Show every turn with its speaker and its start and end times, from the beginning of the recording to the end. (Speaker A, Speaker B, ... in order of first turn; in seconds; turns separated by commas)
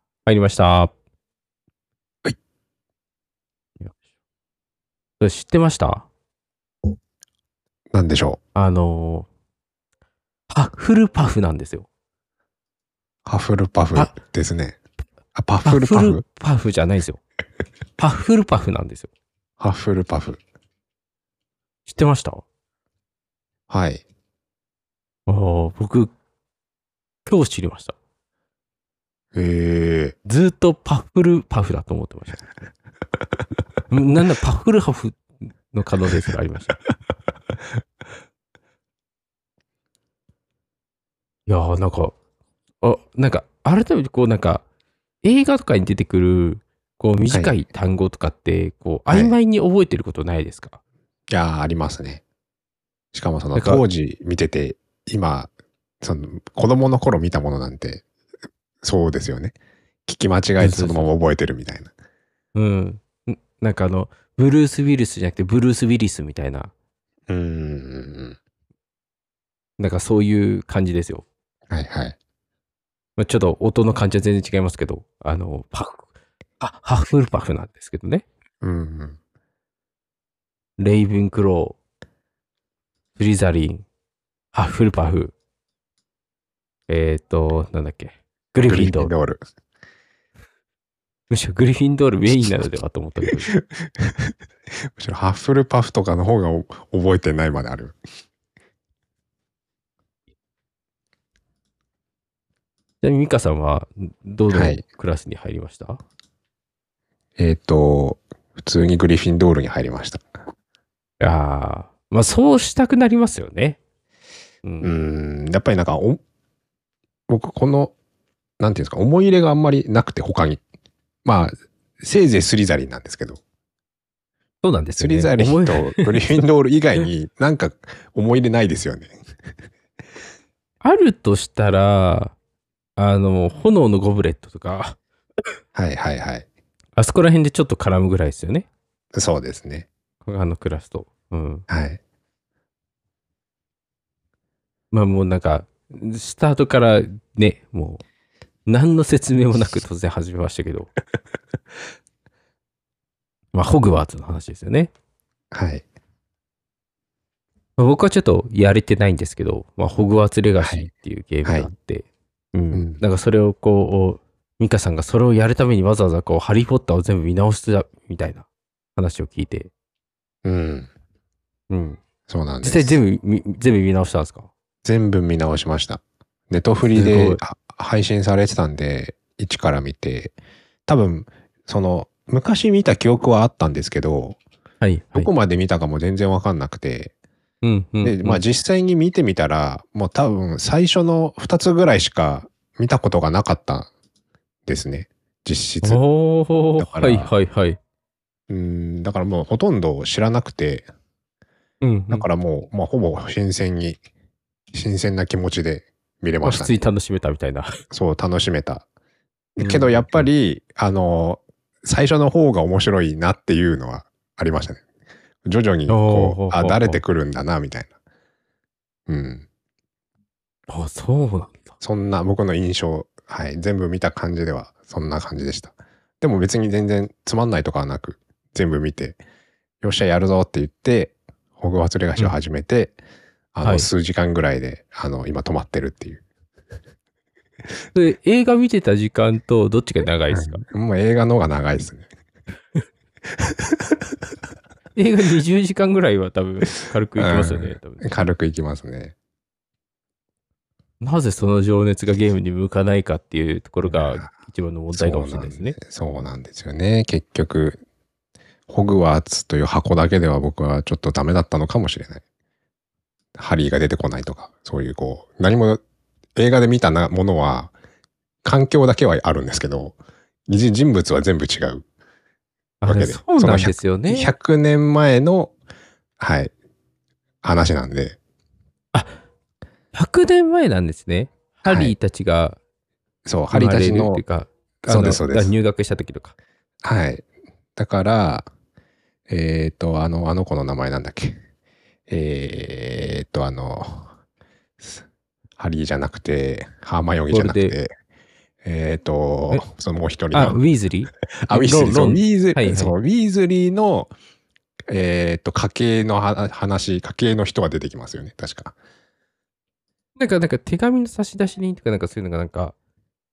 Speaker A: 0.3-0.9, Speaker A: 5.2-6.1, Speaker B: 7.9-8.4, Speaker A: 8.6-9.3, Speaker A: 10.5-11.9, Speaker B: 13.3-14.8, Speaker B: 15.3-16.2, Speaker A: 15.7-17.2, Speaker A: 18.0-19.1, Speaker B: 19.6-20.4, Speaker A: 21.9-22.4, Speaker B: 23.7-24.0, Speaker A: 25.3-26.1, Speaker A: 27.3-27.9, Speaker B: 29.3-30.2, Speaker A: 30.2-32.5, Speaker A: 33.9-36.8, Speaker A: 41.5-42.1, Speaker A: 42.8-44.6, Speaker A: 45.2-50.8, Speaker B: 47.2-47.6, Speaker B: 49.1-49.4, Speaker B: 51.3-52.2, Speaker B: 53.1-55.5, Speaker A: 53.5-53.8, Speaker B: 56.0-58.0, Speaker B: 58.8-59.5, Speaker B: 60.1-61.9, Speaker A: 60.6-61.1, Speaker A: 62.5-66.7, Speaker B: 67.3-68.4, Speaker A: 69.8-71.2, Speaker B: 71.7-72.2, Speaker A: 73.2-76.0, Speaker A: 76.6-78.2, Speaker B: 78.6-79.2, Speaker A: 80.8-81.8, Speaker A: 83.2-83.8, Speaker A: 84.5-85.3, Speaker A: 86.9-89.1, Speaker B: 88.6-89.4, Speaker A: 91.3-93.5, Speaker B: 93.5-94.3, Speaker B: 94.9-98.0, Speaker A: 103.0-106.0, Speaker B: 104.5-104.8, Speaker B: 107.4-110.3, Speaker A: 111.2-113.8, Speaker A: 114.6-114.9, Speaker B: 114.8-116.2, Speaker B: 117.3-117.9, Speaker B: 118.6-120.6, Speaker B: 121.2-123.4, Speaker A: 124.6-126.4, Speaker B: 125.0-129.2, Speaker A: 130.8-132.3, Speaker A: 133.0-135.0, Speaker B: 135.8-136.5, Speaker A: 137.0-138.7, Speaker B: 139.2-139.9, Speaker A: 140.2-141.7, Speaker B: 141.7-142.0, Speaker A: 144.9-148.0, Speaker A: 148.7-150.9, Speaker A: 153.5-154.9, Speaker B: 155.5-155.8, Speaker A: 157.8-169.7, Speaker B: 160.6-160.9, Speaker B: 161.4-161.7, Speaker B: 162.7-163.0, Speaker B: 170.4-170.9, Speaker A: 171.7-172.0, Speaker B: 172.3-173.0, Speaker A: 172.6-174.5, Speaker B: 174.8-180.3, Speaker A: 176.9-177.4, Speaker B: 180.9-184.4, Speaker A: 184.8-185.3, Speaker B: 185.1-187.1, Speaker A: 187.6-188.4, Speaker B: 188.0-193.9, Speaker B: 194.7-196.0, Speaker A: 195.8-197.8, Speaker B: 196.8-197.3, Speaker B: 198.5-200.9, Speaker A: 201.8-202.3, Speaker B: 202.1-204.0, Speaker B: 204.7-206.7, Speaker A: 206.4-207.8, Speaker B: 207.9-208.9, Speaker B: 209.6-214.8, Speaker A: 209.6-210.3, Speaker B: 215.4-217.9, Speaker A: 215.9-217.0, Speaker B: 219.1-219.5, Speaker A: 220.7-221.7, Speaker B: 221.8-229.2, Speaker B: 229.8-233.0, Speaker B: 233.5-236.2, Speaker A: 233.6-233.9, Speaker A: 237.9-240.6, Speaker B: 240.3-242.1, Speaker B: 243.4-244.0, Speaker A: 244.9-248.2, Speaker B: 247.2-249.1, Speaker A: 251.0-255.8, Speaker B: 253.8-254.3, Speaker B: 254.9-257.8, Speaker B: 258.7-262.2, Speaker B: 263.4-265.8, Speaker B: 266.4-267.7, Speaker B: 268.4-270.0, Speaker B: 270.5-271.9, Speaker A: 272.8-274.3, Speaker B: 272.9-275.5, Speaker B: 276.2-276.5, Speaker B: 277.4-278.2, Speaker A: 279.9-282.6, Speaker B: 281.6-281.9, Speaker B: 283.3-284.2, Speaker A: 283.5-286.3, Speaker B: 284.8-285.5, Speaker B: 286.8-287.2, Speaker B: 287.8-288.5, Speaker B: 289.3-291.4, Speaker B: 292.1-294.1, Speaker B: 295.6-297.9, Speaker A: 297.3-297.8, Speaker B: 298.6-300.6, Speaker A: 300.3-302.9, Speaker B: 301.4-304.1, Speaker B: 304.9-308.8, Speaker A: 310.2-312.8